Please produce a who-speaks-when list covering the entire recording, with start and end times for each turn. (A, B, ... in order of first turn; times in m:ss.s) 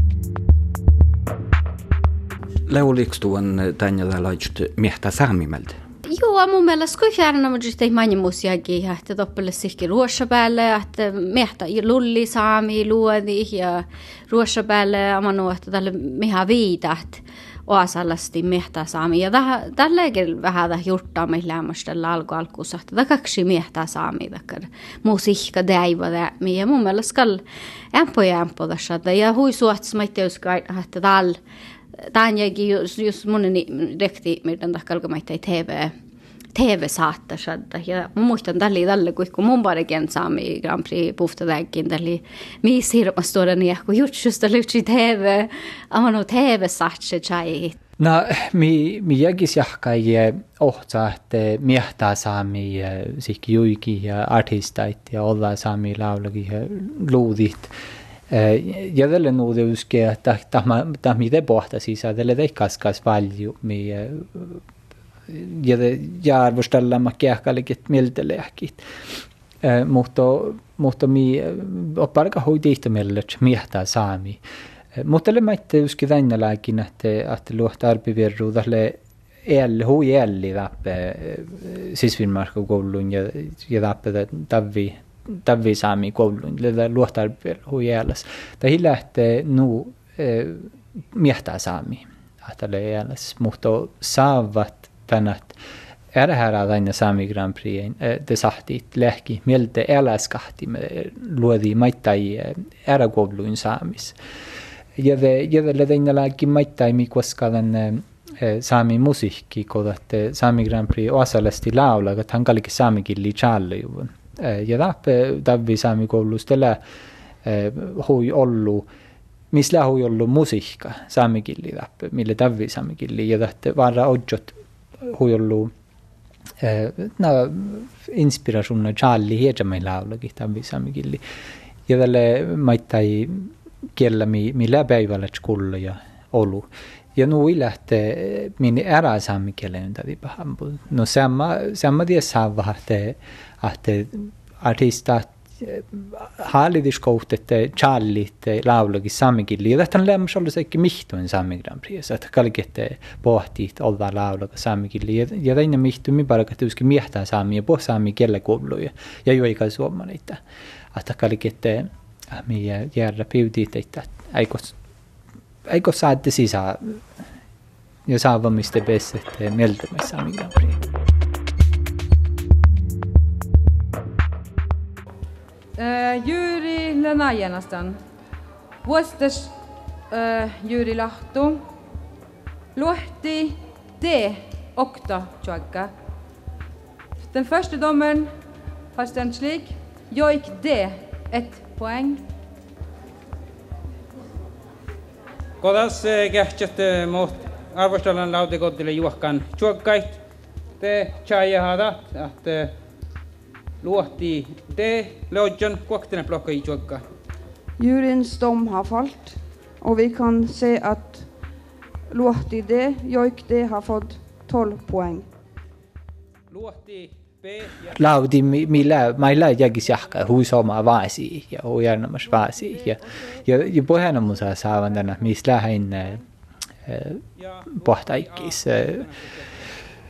0:02.7-0:05.8 A
0:06.1-0:27.4 B
0:27.9-0:31.4 B
0:32.1-0:35.9 B
0:36.6-0:47.8 B
0:48.0-0:57.7 C
0:58.3-1:04.6 C
1:05.3-1:08.8 C
1:09.6-1:14.4 C
1:15.0-1:19.0 C
1:19.5-1:35.6 C
1:36.2-1:44.2 C
1:45.0-1:56.8 C
1:57.4-1:58.9 C
1:59.5-2:05.7 C
2:06.6-2:11.2 C
2:11.9-2:40.4 C
2:40.9-2:44.8 C
2:45.7-2:47.0 C
2:48.1-2:50.8 C
2:55.8-2:58.0 D
2:58.8-2:59.5 D
3:00.1-3:01.6 D
3:02.8-3:05.9 D
3:07.3-3:08.3 D
3:08.9-3:12.2 D
3:15.6-3:20.2 E
3:20.8-3:22.7 E
3:23.8-3:27.0 E
3:27.8-3:29.3 F
3:29.8-3:31.2 F
3:32.1-3:35.2 F
3:36.5-3:38.0 E
3:38.0-3:46.2 C
3:46.9-3:47.2 C
3:47.4-3:49.5 E
3:47.8-3:49.0 C